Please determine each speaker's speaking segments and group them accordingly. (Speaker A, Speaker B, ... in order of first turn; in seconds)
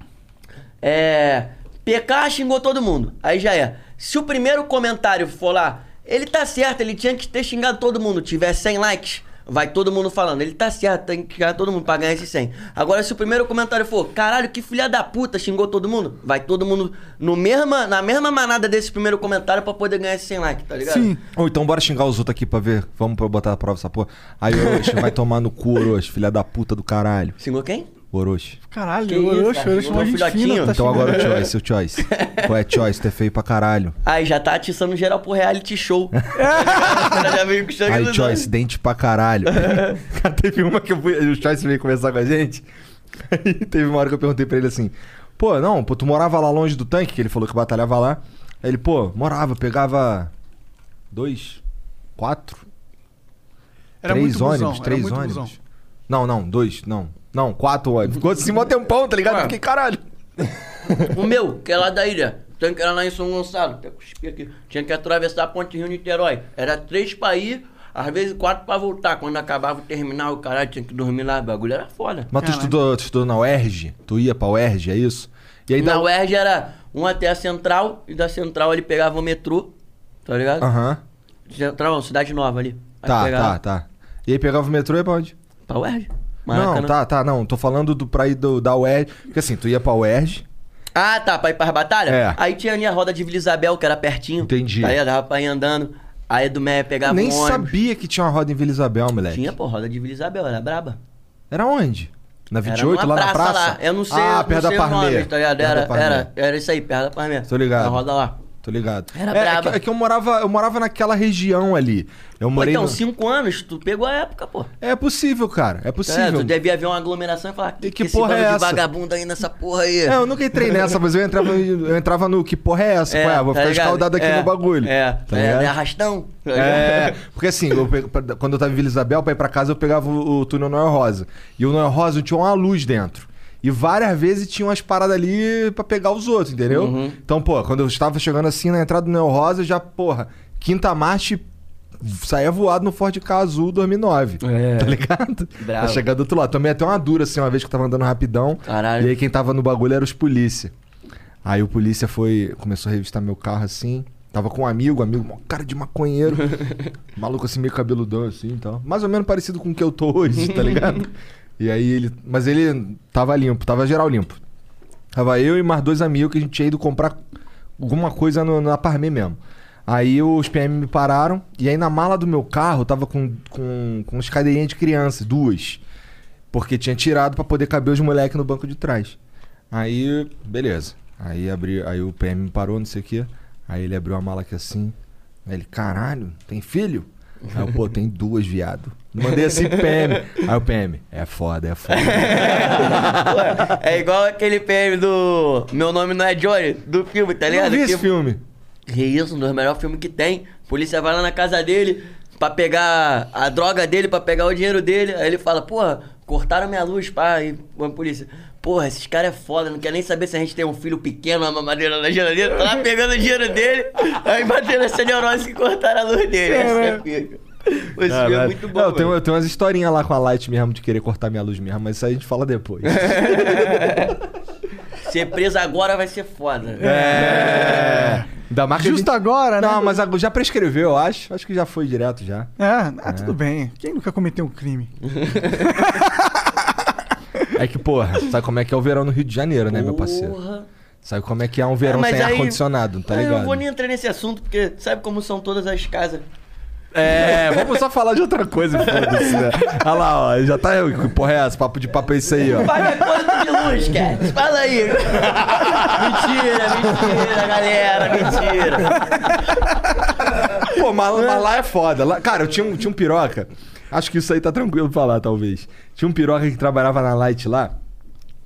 Speaker A: 0.8-21.2, 24.7-25.0, 27.4-27.9, 29.1-31.5, 32.0-32.5, 34.0-38.5, 39.6-39.9, 59.2-59.5, 61.1-72.3, 75.8-80.7, 81.5-83.5, 85.7-86.9, 90.9-97.7, 99.3-101.0, 102.6-108.4, 109.1-109.8, 112.5-114.7, 116.0-120.8, 123.1-127.2, 136.7-137.2, 144.4-145.0, 145.6-146.0, 148.7-149.1, 189.4-190.2, 191.9-198.1, 198.9-219.1, 222.9-224.1, 225.0-228.0, 235.1-235.7, 239.7-240.7, 241.8-246.2, 247.1-247.7, 248.8-249.5, 252.4-259.1, 261.1-261.4
Speaker B: 20.9-21.2, 28.7-31.3, 36.3-37.3, 54.0-55.5, 72.4-72.7, 216.5-217.0, 226.8-228.2, 228.8-229.9, 232.6-234.9, 235.8-236.1
Speaker C: 21.3-27.4, 28.1-28.6, 30.7-34.0, 37.9-42.6, 43.2-50.3, 51.1-51.6, 52.2-52.6, 54.0-55.6, 56.1-61.1, 72.3-76.0, 80.6-81.0, 83.0-85.3, 86.5-90.4, 92.1-92.4, 94.4-95.0, 97.0-99.5, 101.5-106.3, 107.5-108.0, 108.6-113.0, 114.8-116.5, 117.8-118.8, 120.0-125.7, 126.5-141.4, 142.0-150.7, 151.4-156.6, 157.1-164.4, 165.1-167.2, 167.8-175.8, 176.5-179.2, 179.7-184.9, 185.4-193.8, 197.5-198.4, 218.1-224.1, 226.8-232.5, 233.1-233.4, 237.5-240.4, 241.0-243.6, 246.9-253.4, 255.2-257.5, 260.6-267.8